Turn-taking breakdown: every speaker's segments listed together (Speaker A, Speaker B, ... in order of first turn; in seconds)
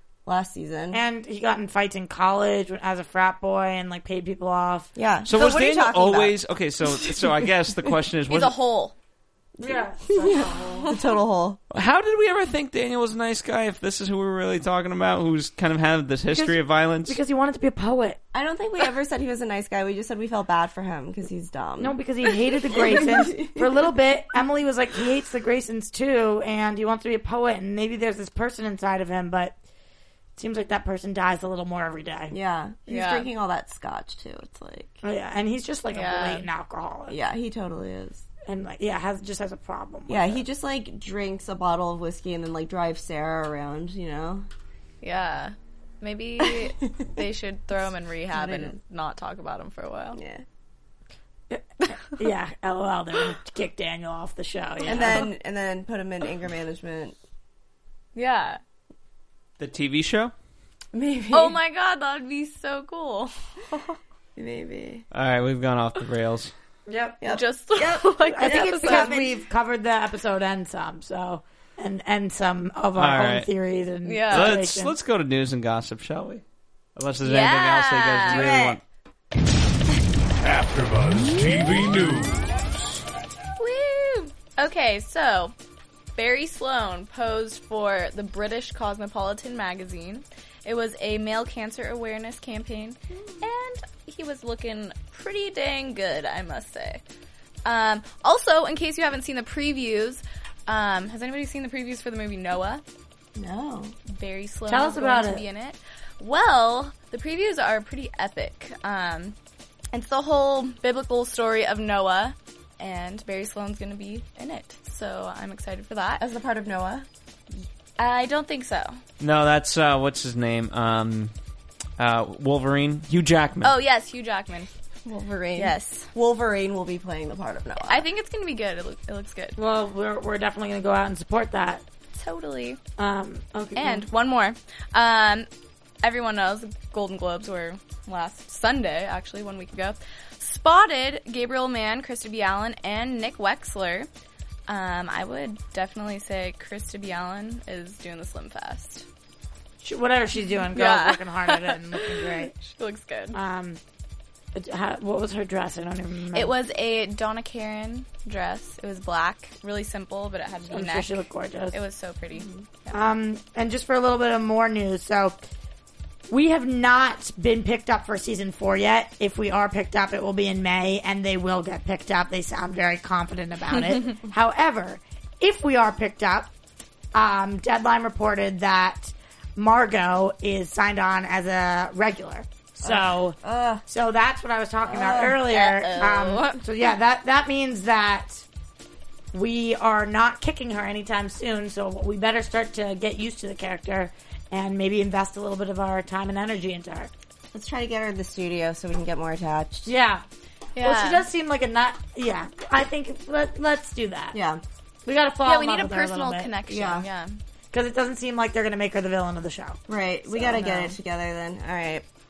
Speaker A: 0.2-1.0, 5.0-6.4, 9.6-11.6, 18.3-22.0, 22.7-23.7, 32.3-35.0, 37.1-38.2, 40.1-44.5, 46.4-46.8, 48.3-48.8, 50.1-50.4, 54.8-57.1, 60.9-61.6, 64.3-65.0, 67.2-69.3, 78.2-78.8, 93.1-93.4, 103.3-103.9, 116.2-117.1, 125.0-128.1, 182.8-183.8, 184.8-185.3, 197.5-199.9, 204.3-204.6, 206.7-207.0, 209.9-212.0
Speaker B: 0.9-4.9, 9.6-10.9, 16.3-18.2, 21.8-29.6, 30.4-32.3, 35.0-37.2, 38.5-40.4, 51.5-55.3, 66.9-67.2, 68.3-74.9, 104.7-105.4, 129.6-131.8, 133.0-134.1, 149.8-152.5, 153.3-153.8, 154.5-156.5, 160.7-161.8, 162.4-165.4, 166.3-176.5, 177.1-188.4, 189.3-197.1, 199.8-200.2, 200.8-204.4, 205.1-206.5, 207.7-210.9
Speaker C: 5.2-8.6, 11.7-17.2, 59.6-60.3, 65.1-66.5, 73.0-73.5, 74.3-76.4, 77.0-78.8, 119.2-121.3, 122.0-123.8
Speaker D: 8.3-8.9, 32.9-33.3, 35.9-36.5, 45.0-50.2, 54.9-55.1, 58.1-58.6, 61.3-64.0, 67.2-69.1, 74.0-74.5, 77.2-78.5, 83.6-85.5, 86.2-97.0, 97.6-102.8, 104.1-109.3, 109.9-116.2, 118.0-119.0, 123.6-124.7, 125.5-126.1, 127.8-129.6, 132.2-132.8, 133.8-135.5, 136.0-144.1, 144.7-149.1, 150.7-153.4, 156.3-161.1, 161.7-162.5, 185.2-186.6, 200.8-201.3, 205.4-207.4
Speaker E: 80.4-83.0